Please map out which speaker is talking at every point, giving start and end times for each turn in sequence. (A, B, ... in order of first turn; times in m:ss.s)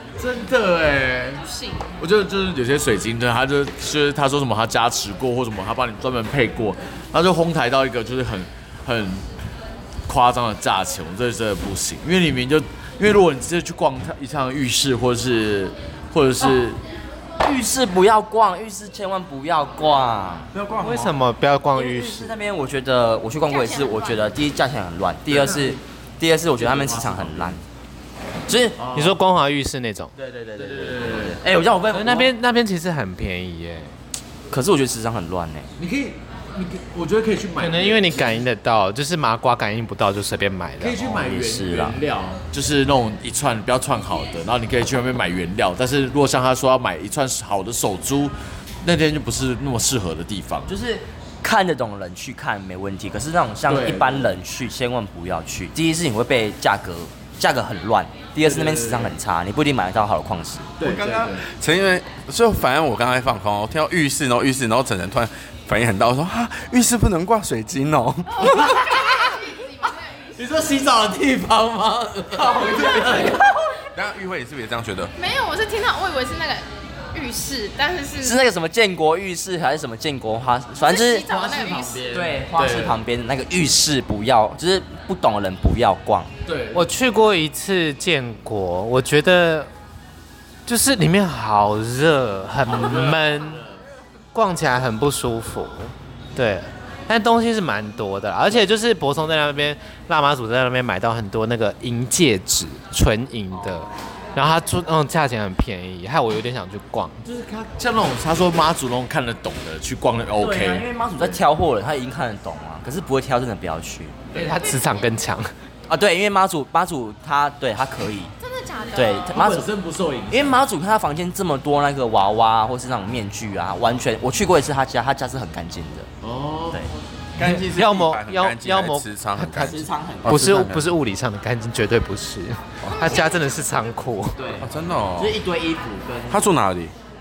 0:00.2-0:01.5 A
0:01.4-0:02.0 B
0:02.0-0:09.3 A
0:10.1-0:16.8 A
0:17.4-0:20.5 C
0:20.5-0:21.1 D
0:20.8-0:22.3 E
0:21.7-0:27.6 C
0:23.5-0:24.4 B
0:25.3-0:25.8 A
0:26.6-0:27.6 A
0:28.5-0:28.8 C
0:28.8-0:29.2 A
0:28.9-0:30.1 E
0:30.2-0:32.3 C
0:30.6-0:31.4 A
0:31.9-0:33.9 E
0:34.5-0:35.7 C
0:35.8-0:38.4 A
0:37.6-0:41.0 E
0:40.8-0:50.7 A
0:41.0-0:42.0 C
0:50.7-1:00.7 C
0:53.7-0:54.4 A
0:58.4-0:59.2 A
1:00.8-1:01.4 A
1:00.8-1:08.8 D
1:08.4-1:10.3 B
1:08.4-1:09.3 A
1:10.4-1:13.9 A
1:12.4-1:13.0 C
1:14.0-1:15.1 D
1:15.2-1:18.4 B
1:18.2-1:21.3 C
1:20.8-1:22.1 B
1:21.3-1:23.0 A
1:22.1-1:26.3 C
1:26.5-1:26.8 A
1:26.7-1:29.7 E
1:30.7-1:33.6 E
1:32.7-1:33.8 A
1:34.3-1:47.2 E
1:47.2-1:51.4 A
1:50.4-1:54.2 C
1:54.3-1:55.5 E
1:54.5-1:55.1 B
1:55.9-1:58.3 C
1:58.4-1:59.3 B
1:59.0-1:59.7 C
1:59.3-2:00.6 A
2:00.3-2:06.1 C
2:06.2-2:06.9 A
2:07.4-2:10.9 D
2:07.4-2:14.4 E
2:09.6-2:10.5 C
2:12.8-2:13.8 B
2:14.4-2:16.4 C
2:14.6-2:15.4 D
2:16.3-2:16.9 D